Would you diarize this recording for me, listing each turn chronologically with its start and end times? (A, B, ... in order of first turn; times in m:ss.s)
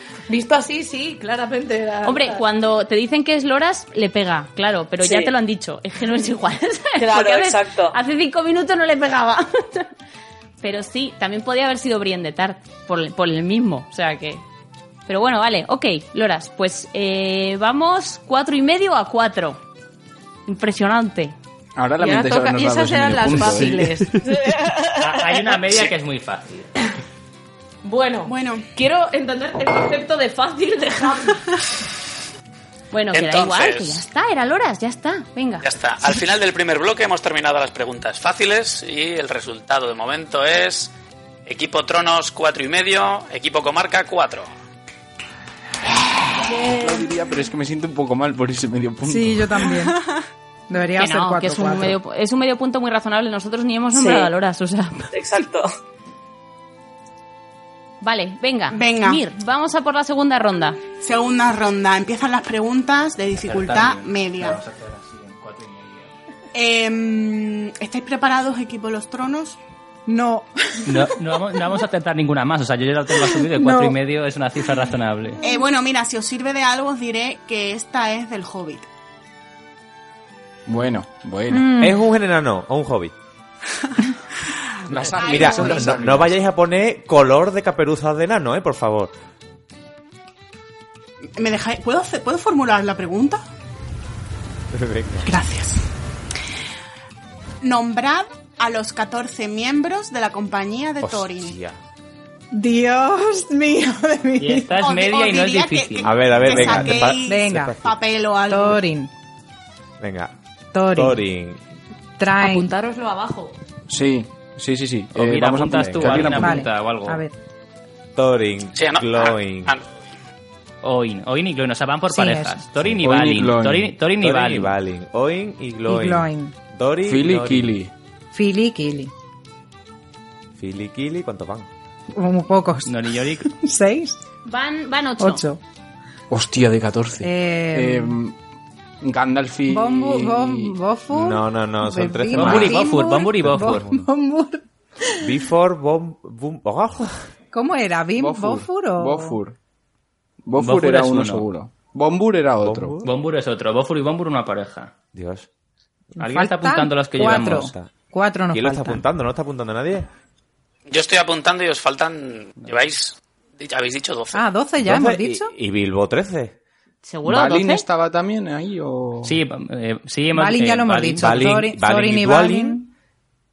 0:00.3-0:02.4 A
0:02.0-0:09.9 B
0:05.0-0:05.3 C
0:07.0-0:08.0 C
0:10.6-0:14.4 B
0:15.1-0:19.6 B
0:20.4-0:21.3 B
0:21.8-0:24.1 D
0:22.0-0:24.2 A
0:24.2-0:25.4 C
0:25.0-0:26.7 E
0:27.8-0:31.6 A
0:28.2-0:28.6 F
0:32.9-0:35.6 B
0:33.1-0:34.0 G
0:35.6-0:40.9 G
0:41.4-0:44.5 G
0:46.4-0:49.8 D
0:49.0-0:50.0 H
0:50.7-0:52.0 H
0:51.0-0:55.1 B
0:53.9-0:54.3 C
0:55.1-0:55.7 C
0:58.0-1:00.8 B
0:58.7-0:59.2 F
1:01.0-1:04.6 F
1:03.4-1:06.1 E
1:06.5-1:09.6 F
1:10.1-1:11.2 H
1:10.8-1:15.4 E
1:13.2-1:14.0 H
1:15.4-1:18.9 F
1:20.7-1:21.7 D
1:21.5-1:22.0 H
1:21.8-1:23.1 I
1:24.9-1:26.3 D
1:24.9-1:29.1 I
1:25.1-1:26.0 F
1:31.4-1:33.4 F
1:34.7-1:35.3 I
1:35.3-1:35.8 F
1:37.6-1:41.5 F
1:41.0-1:41.8 I
1:42.5-1:44.7 H
1:44.4-1:47.0 E
1:44.8-1:48.8 F
1:46.0-1:47.9 I
1:47.2-1:47.8 H
1:48.5-1:49.1 H
1:50.0-1:50.3 I
1:50.7-1:51.2 H
1:50.9-1:51.6 I
1:52.2-1:52.7 H
1:52.4-1:53.5 A
1:53.9-1:56.6 D
1:55.1-1:57.2 E
1:55.7-1:56.4 I
1:56.3-1:57.3 H
1:58.2-1:59.7 I
1:58.7-1:59.8 G
2:00.8-2:04.7 E
2:02.1-2:02.6 H
2:03.0-2:03.9 D
2:04.2-2:07.8 I
2:05.8-2:06.5 H
2:07.0-2:07.9 D
2:08.3-2:09.1 H
2:10.6-2:11.7 I
2:12.1-2:14.2 H
2:12.8-2:13.5 E
2:14.4-2:15.4 B
2:15.2-2:15.6 H
2:16.3-2:18.4 D
2:17.2-2:18.2 H
2:19.0-2:20.8 D
2:19.7-2:25.3 H
2:21.1-2:24.1 I
2:22.3-2:23.8 E
2:25.2-2:27.2 I
2:27.5-2:29.4 H
2:28.2-2:29.6 D
2:30.4-2:32.9 D
2:30.6-2:31.4 E
2:32.6-2:33.1 I
2:33.0-2:34.9 E
2:35.1-2:35.5 I
2:36.2-2:39.0 H
2:36.2-2:37.7 E
2:37.2-2:37.9 I
2:38.5-2:40.1 I
2:40.9-2:44.4 G
2:44.3-2:45.5 H
2:44.8-2:46.6 I
2:47.0-2:47.8 B
2:47.2-2:49.4 D
2:49.2-2:51.7 E
2:50.3-2:52.9 H
2:51.2-2:52.8 I